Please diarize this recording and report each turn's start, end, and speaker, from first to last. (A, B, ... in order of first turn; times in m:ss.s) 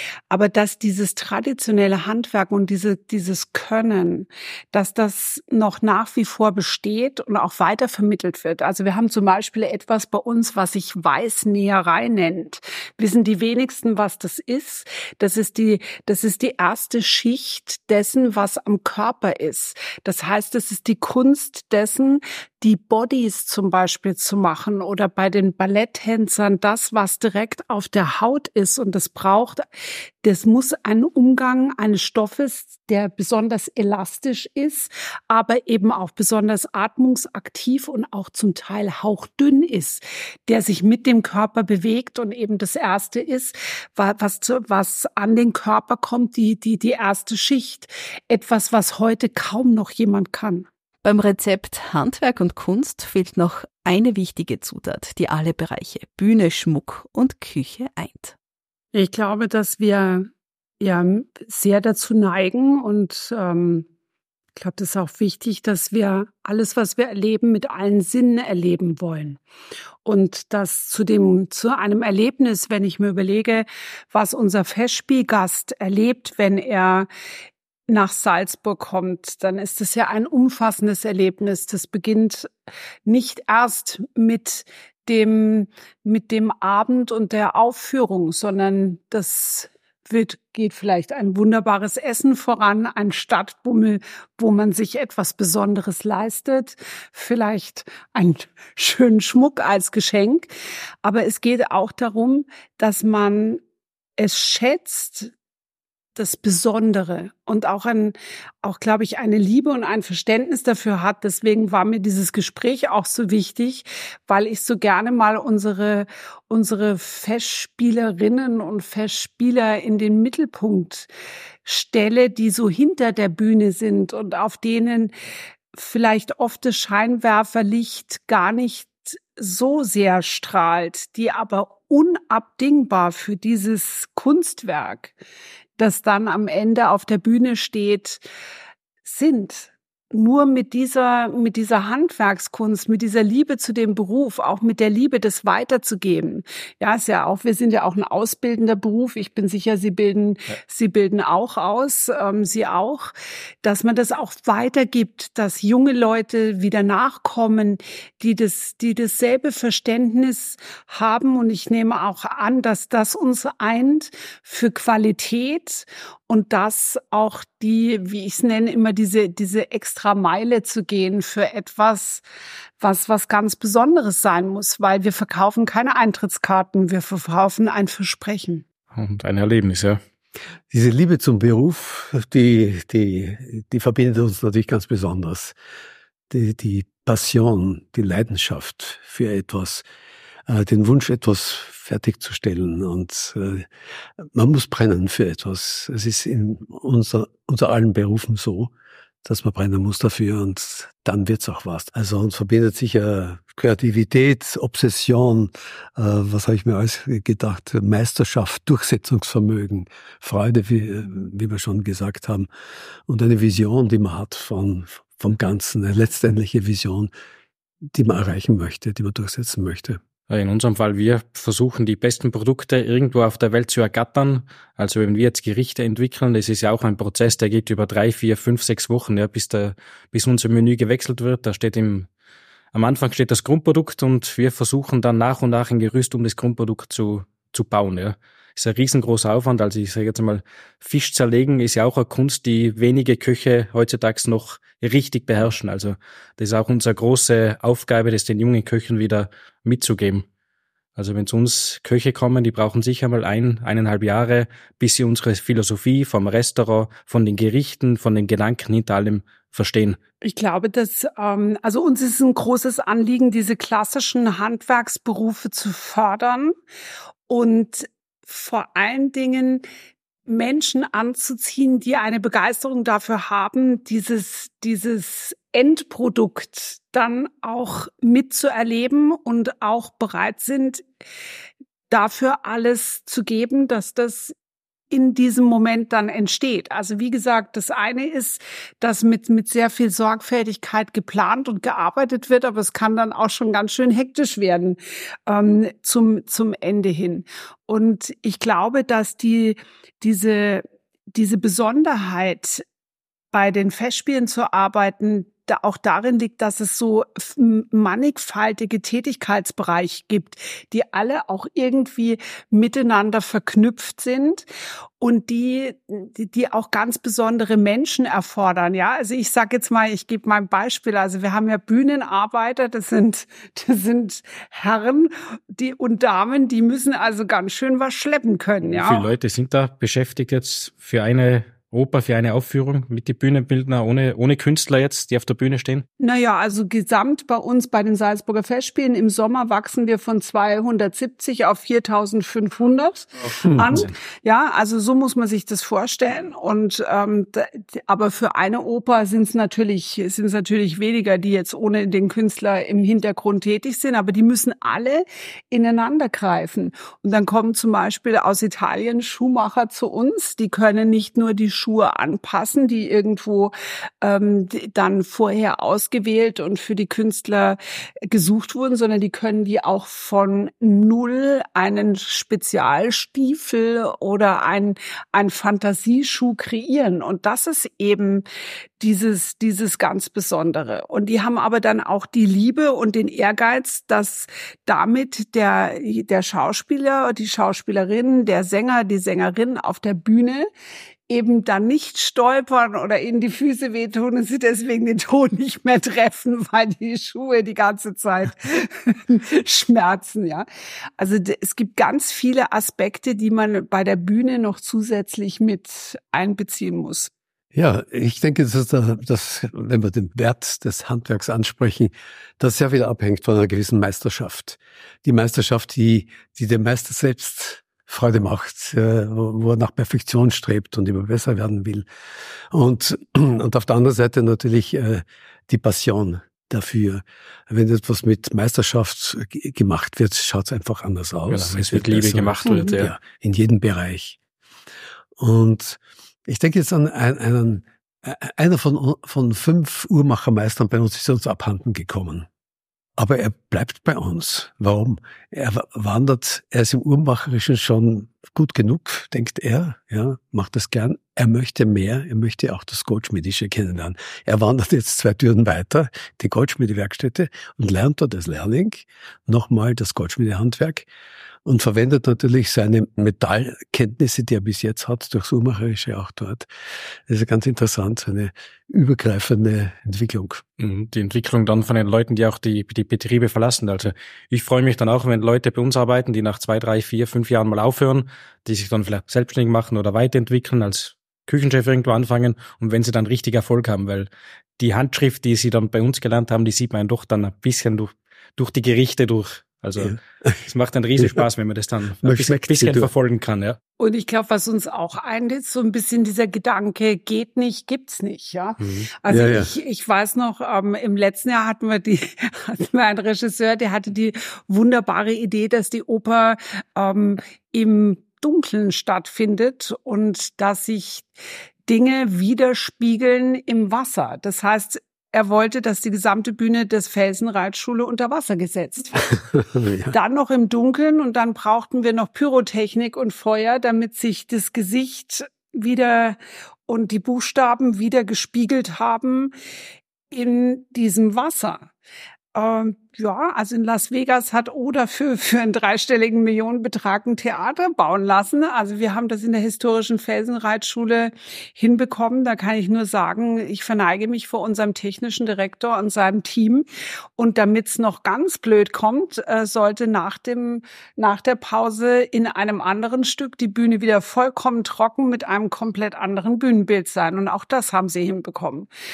0:00.3-0:29.6 A
0:30.2-0:50.6 A
0:51.0-0:58.3 B
0:58.9-1:00.3 A
1:00.8-1:03.9 A
1:04.6-1:09.4 A
1:10.0-1:17.1 A
1:17.9-1:22.5 A
1:23.0-1:40.5 A
1:41.0-1:43.6 A
1:44.2-1:45.3 A
1:46.1-2:01.1 A
2:01.6-2:05.1 A
2:05.7-2:15.1 A
2:15.8-2:18.2 A
2:19.0-2:33.1 A
2:33.6-2:52.2 A
2:52.8-2:58.6 A
2:58.9-3:00.0 C
3:00.7-3:05.5 D
3:06.3-3:09.8 D
3:10.5-3:13.7 D
3:14.2-3:18.7 D
3:19.2-3:32.5 D
3:33.1-3:37.1 D
3:37.9-3:40.0 D
3:40.3-3:52.1 C
3:52.7-4:10.3 C
4:11.0-4:20.0 C
4:20.2-4:26.5 A
4:27.3-4:29.6 A
4:30.3-4:40.8 A
4:41.9-4:44.3 A
4:44.9-5:00.6 A
5:01.1-5:02.6 A
5:03.3-5:14.4 A
5:15.0-5:29.1 A
5:28.7-5:35.8 C
5:36.0-6:18.2 A
5:43.4-5:43.8 D
6:18.8-6:30.5 A
6:31.1-6:40.4 A
6:41.0-6:47.1 A
6:47.5-7:01.8 D
7:02.5-7:14.2 D
7:11.3-7:12.9 C
7:15.2-7:22.3 D
7:23.0-7:40.9 D
7:41.4-7:46.5 D
7:47.1-7:50.4 D
7:50.6-8:13.6 C
8:09.8-8:10.4 D
8:11.0-8:11.3 D
8:12.0-8:12.9 D
8:13.8-8:31.1 A
8:18.6-8:18.9 C
8:19.1-8:19.5 D
8:31.7-8:39.2 A
8:39.3-8:39.9 D
8:39.9-8:49.3 A
8:50.1-8:51.7 A
8:52.3-9:06.6 A
9:07.2-9:18.7 A